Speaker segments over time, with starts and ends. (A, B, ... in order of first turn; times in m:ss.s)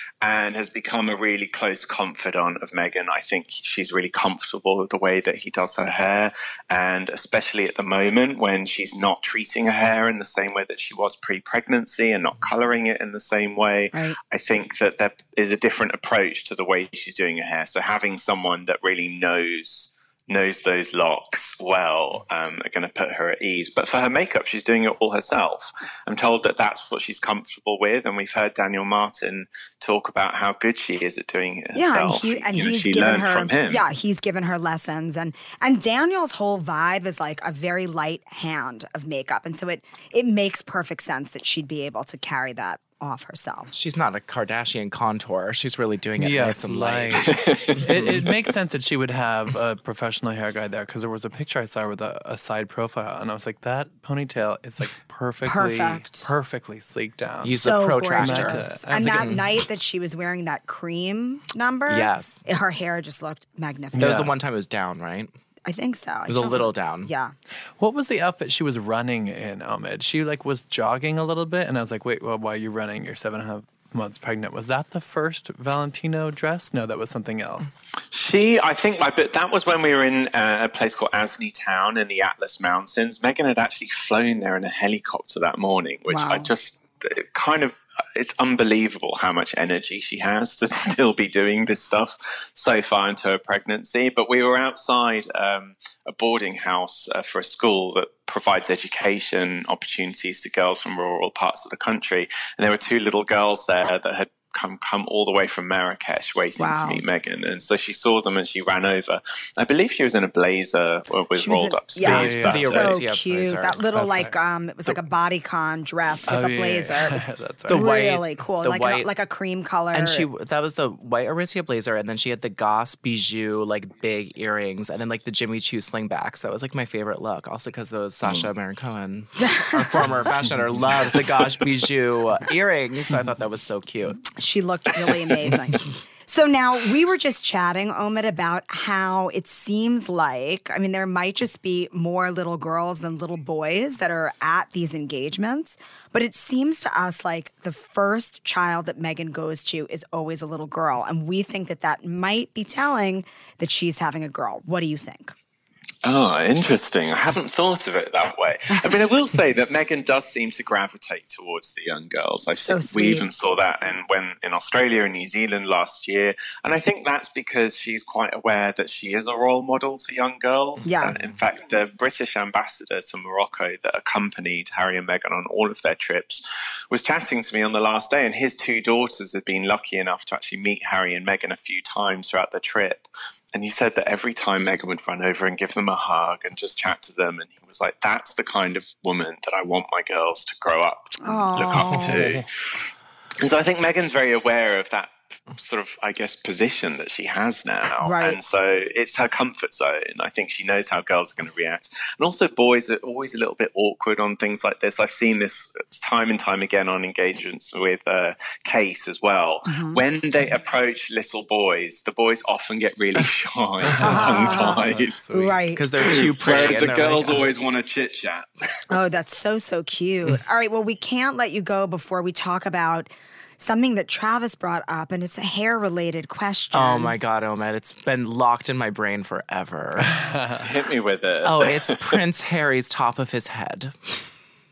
0:00.2-0:33.8 A
0:31.7-0:43.7 B
0:43.7-0:48.3 C
0:46.2-0:59.6 D
0:47.3-0:47.8 A
0:55.4-0:56.3 B
0:57.4-0:59.4 C
0:57.6-1:04.2 B
1:01.9-1:02.4 C
1:03.9-1:04.3 D
1:04.0-1:05.3 C
1:05.6-1:07.3 B
1:06.3-1:07.1 C
1:07.8-1:17.8 D
1:18.1-1:53.0 A
1:26.1-1:26.5 B
1:46.6-1:47.0 B
1:51.3-2:00.3 B
1:52.0-1:52.8 D
1:52.0-1:53.8 C
1:53.9-1:54.3 D
1:56.3-1:57.9 D
1:57.7-1:59.1 C
1:59.9-2:14.2 C
2:09.4-2:09.9 B
2:10.5-2:10.8 D
2:14.4-2:35.3 B
2:36.0-3:35.2 A
2:42.5-2:43.3 B
2:50.8-2:51.2 B
3:11.2-3:12.2 B
3:18.0-3:18.4 B
3:29.6-3:30.0 B
3:33.8-3:35.7 D
3:34.0-3:35.8 B
3:35.7-3:37.5 C
3:36.0-3:38.5 A
3:38.9-3:47.1 B
3:46.7-3:50.2 C
3:50.0-3:50.7 D
3:50.6-3:52.2 A
3:51.4-3:53.9 C